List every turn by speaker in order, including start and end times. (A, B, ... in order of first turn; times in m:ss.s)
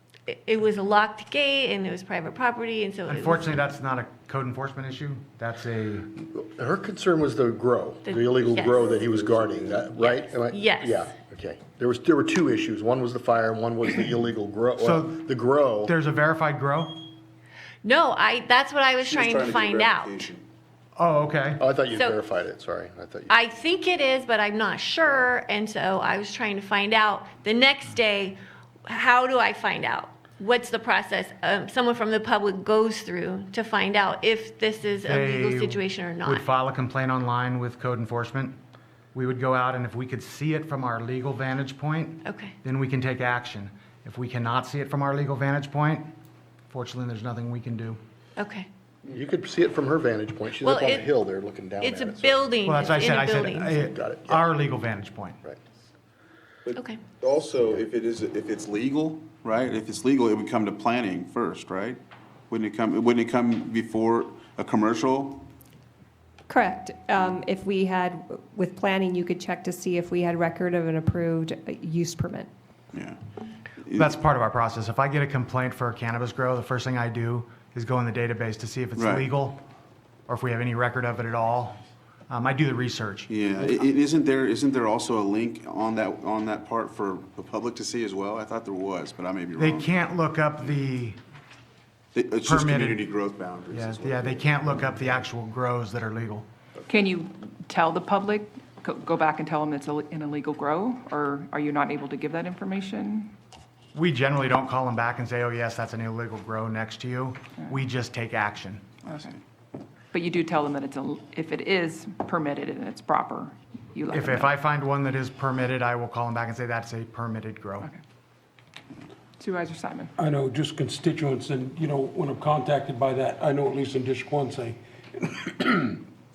0:00.3-0:03.6 A
0:03.0-0:06.1 B
0:06.2-0:15.9 C
0:08.0-0:09.0 A
0:10.0-0:11.1 A
0:14.8-0:15.2 B
0:15.8-0:17.0 B
0:17.8-0:20.3 A
0:19.1-0:20.4 D
0:21.0-0:21.6 B
0:21.6-0:23.3 C
0:23.3-0:36.4 A
0:35.0-0:38.6 B
0:39.1-0:46.1 B
0:42.2-0:42.6 A
0:46.7-0:48.0 B
0:48.4-0:48.7 A
0:49.1-0:52.5 C
0:50.6-0:51.1 A
0:51.8-0:53.9 A
0:52.6-0:55.4 B
0:53.8-0:54.5 C
0:56.7-1:05.5 D
1:06.5-1:12.5 E
1:12.9-1:13.2 D
1:13.8-1:14.1 D
1:13.9-1:19.6 B
1:19.0-1:19.3 D
1:20.3-1:23.3 B
1:23.3-1:29.9 D
1:29.6-1:31.2 B
1:32.1-1:35.2 D
1:32.4-1:33.1 B
1:33.7-1:36.5 B
1:36.9-1:43.3 F
1:43.9-1:48.8 B
1:49.0-1:49.4 F
1:50.1-1:54.5 F
1:54.1-1:57.9 B
1:59.4-2:00.1 F
2:00.2-2:06.0 G